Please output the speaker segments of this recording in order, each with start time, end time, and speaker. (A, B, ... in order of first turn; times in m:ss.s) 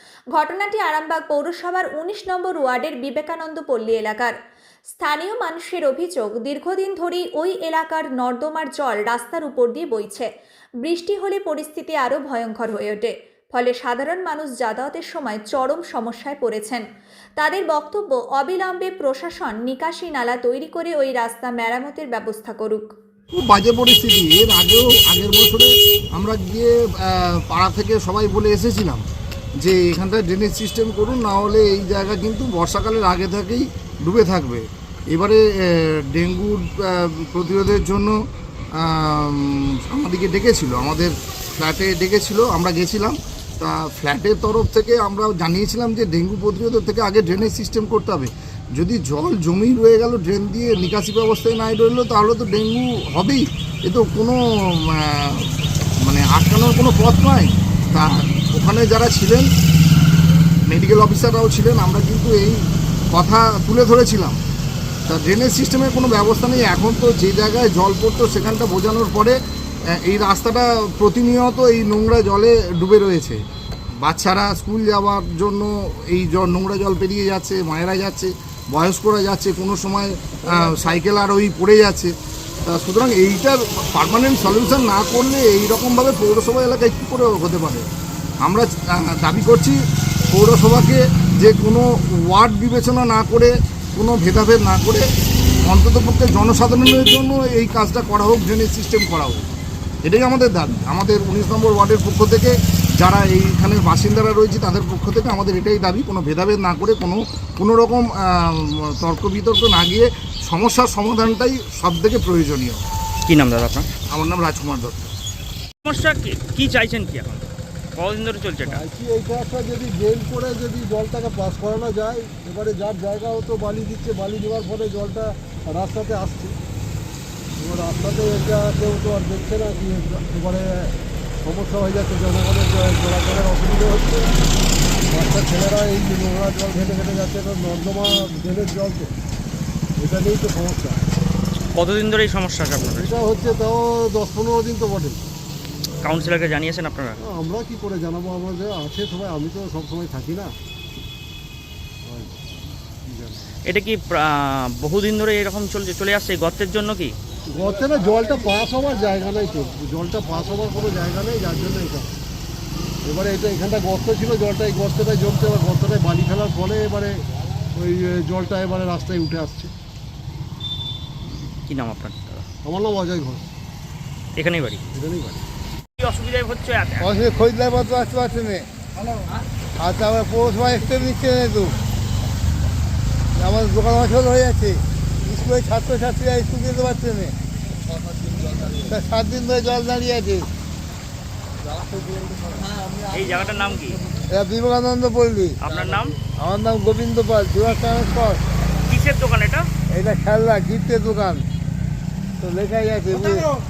0:00.3-0:04.3 A
0:05.0-0:10.3 A
0:10.8-0:16.8 A
0:17.4-0:22.9 A
0:23.3-0:29.0 B
0:29.6-0:38.2 B
0:38.8-0:59.5 B
1:00.7-1:02.6 B
1:03.1-1:04.4 B
1:05.1-1:09.4 B
1:09.9-1:13.4 B
1:14.0-1:22.1 B
1:22.6-1:27.9 B
1:28.4-1:29.8 B
1:30.3-1:35.1 B
1:35.6-1:39.4 B
1:40.0-1:52.8 B
1:53.3-1:53.9 C
1:54.1-1:55.1 B
1:55.8-1:57.5 C
1:58.0-1:58.8 C
1:58.6-2:06.6 D
2:07.6-2:10.9 D
2:11.4-2:14.3 D
2:15.1-2:19.1 D
2:20.0-2:21.0 D
2:21.8-2:23.2 C
2:22.9-2:25.3 D
2:26.0-2:27.2 C
2:27.2-2:30.5 D
2:32.1-2:33.6 D
2:33.7-2:37.1 C
2:37.5-2:42.1 D
2:43.1-2:47.2 D
2:47.8-2:49.7 D
2:51.3-2:52.5 C
2:52.6-2:53.5 D
2:54.4-2:54.8 C
2:54.9-2:55.4 D
2:56.0-2:57.1 C
2:57.0-2:58.6 E
2:59.8-3:01.7 E
3:03.4-3:07.3 E
3:08.7-3:10.5 E
3:13.1-3:14.0 C
3:14.3-3:15.6 E
3:15.6-3:16.2 C
3:16.4-3:18.4 E
3:18.9-3:19.6 C
3:19.9-3:21.4 E
3:22.4-3:23.5 E